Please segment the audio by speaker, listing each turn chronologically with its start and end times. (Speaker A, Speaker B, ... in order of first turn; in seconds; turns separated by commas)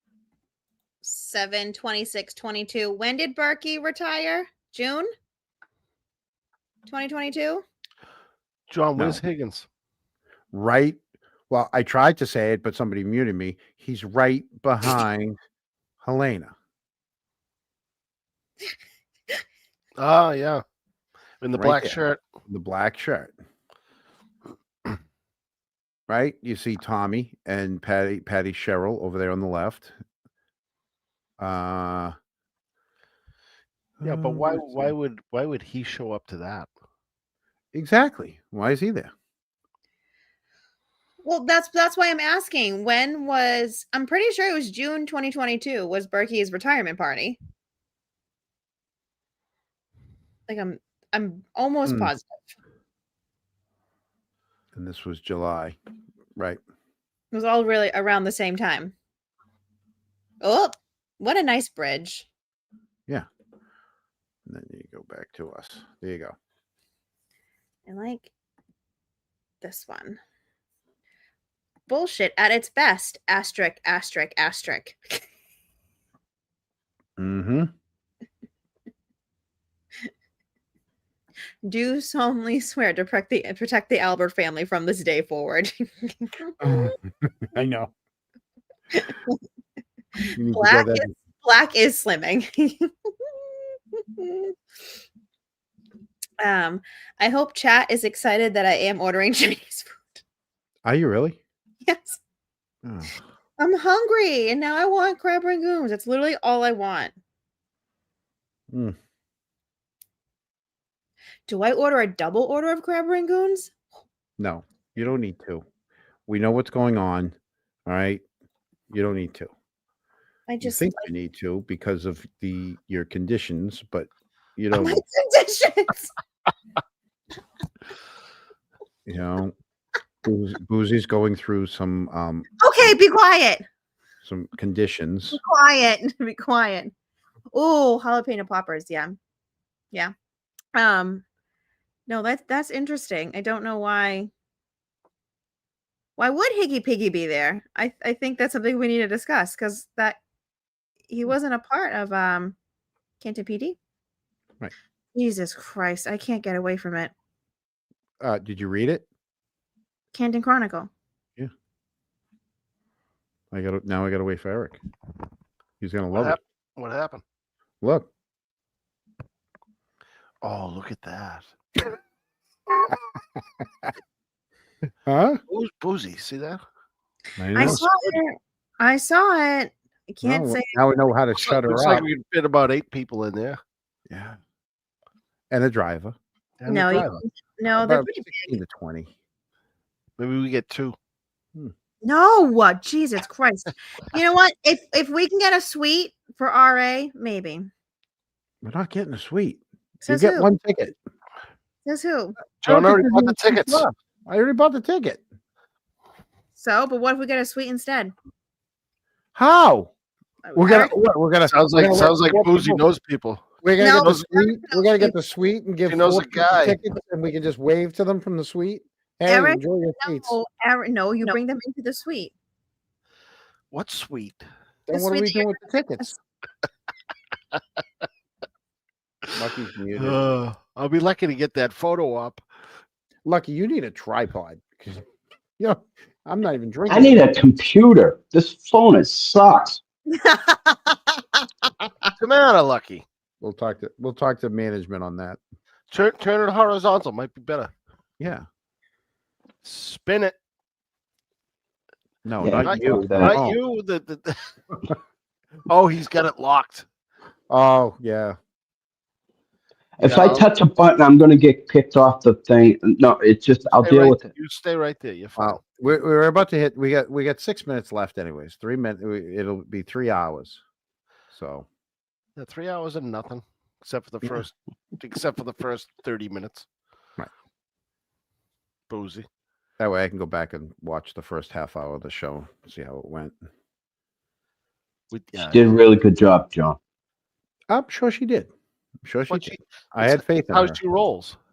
Speaker A: 1.0-5.1, Speaker A: 6.9-7.6, Speaker B: 8.7-9.7, Speaker C: 8.9-9.2, Speaker C: 10.5-15.4, Speaker C: 16.0-16.5, Speaker B: 20.0-20.6, Speaker B: 21.4-22.2, Speaker C: 21.5-23.3, Speaker C: 26.1-29.9, Speaker C: 31.4-32.1, Speaker C: 34.0-34.9, Speaker B: 34.0-36.7, Speaker C: 37.7-39.1, Speaker A: 41.2-47.4, Speaker A: 50.5-52.5, Speaker C: 51.8-52.1, Speaker C: 54.7-55.8, Speaker A: 57.3-58.9, Speaker A: 60.4-62.3, Speaker C: 64.5-66.3, Speaker A: 67.8-68.3, Speaker A: 69.6-70.2, Speaker A: 71.9-75.2, Speaker C: 77.2-77.7, Speaker A: 81.6-86.9, Speaker C: 86.6-87.9, Speaker A: 88.9-89.4, Speaker C: 90.3-91.1, Speaker A: 90.5-94.5, Speaker A: 96.4-100.2, Speaker C: 100.8-101.4, Speaker A: 101.8-102.2, Speaker C: 102.8-103.1, Speaker A: 103.6-107.1, Speaker C: 108.7-109.0, Speaker A: 111.5-113.7, Speaker C: 114.4-115.6, Speaker C: 116.3-117.3, Speaker C: 117.8-118.2, Speaker C: 118.9-119.5, Speaker A: 120.5-121.1, Speaker C: 120.6-125.0, Speaker A: 124.7-126.1, Speaker C: 129.1-129.5, Speaker C: 130.2-132.6, Speaker A: 132.6-133.6, Speaker C: 134.2-135.4, Speaker A: 135.3-136.9, Speaker A: 137.5-139.2, Speaker A: 140.7-141.2, Speaker A: 142.1-144.3, Speaker A: 146.2-150.2, Speaker A: 151.1-152.6, Speaker A: 153.2-153.8, Speaker A: 155.1-157.1, Speaker C: 158.2-159.1, Speaker A: 160.1-160.9, Speaker C: 163.5-164.8, Speaker C: 165.8-166.4, Speaker B: 166.1-167.2, Speaker C: 167.8-168.1, Speaker B: 170.4-171.5, Speaker C: 175.1-175.4, Speaker B: 175.5-176.6, Speaker C: 177.4-177.9, Speaker A: 177.5-180.7, Speaker C: 180.2-182.1, Speaker B: 181.3-183.6, Speaker C: 184.1-184.4, Speaker C: 185.5-186.2, Speaker B: 186.6-187.2, Speaker A: 186.7-188.6, Speaker C: 187.8-189.1, Speaker B: 190.2-190.9, Speaker A: 192.0-197.7, Speaker C: 198.6-200.9, Speaker A: 200.0-200.5, Speaker A: 201.8-202.3, Speaker B: 202.6-203.9, Speaker C: 202.7-205.2, Speaker A: 206.6-208.1, Speaker C: 209.3-209.9, Speaker A: 210.4-210.9, Speaker C: 210.5-212.8, Speaker B: 211.5-213.4, Speaker C: 213.6-220.3, Speaker A: 213.8-215.1, Speaker B: 215.9-216.8, Speaker A: 219.3-222.3, Speaker B: 223.7-224.4, Speaker C: 224.9-226.2, Speaker A: 224.9-226.1, Speaker C: 229.3-230.2, Speaker B: 229.9-232.4, Speaker C: 233.2-235.0, Speaker C: 235.6-237.3, Speaker D: 236.9-239.8, Speaker A: 240.1-241.2, Speaker B: 242.2-243.0, Speaker C: 243.4-245.4, Speaker B: 245.9-247.7, Speaker C: 248.2-248.4, Speaker B: 249.6-250.3, Speaker C: 252.2-253.6, Speaker D: 252.4-253.4, Speaker B: 252.6-254.4, Speaker B: 255.7-256.9, Speaker C: 257.5-258.4, Speaker D: 260.0-264.3, Speaker B: 260.0-260.5, Speaker B: 263.6-265.6, Speaker C: 265.4-270.6, Speaker C: 271.3-271.7, Speaker B: 272.4-276.7, Speaker B: 278.9-279.3, Speaker C: 279.8-283.4, Speaker B: 285.1-285.6, Speaker D: 285.4-286.8, Speaker C: 287.7-288.5, Speaker C: 289.0-290.8, Speaker B: 289.3-291.4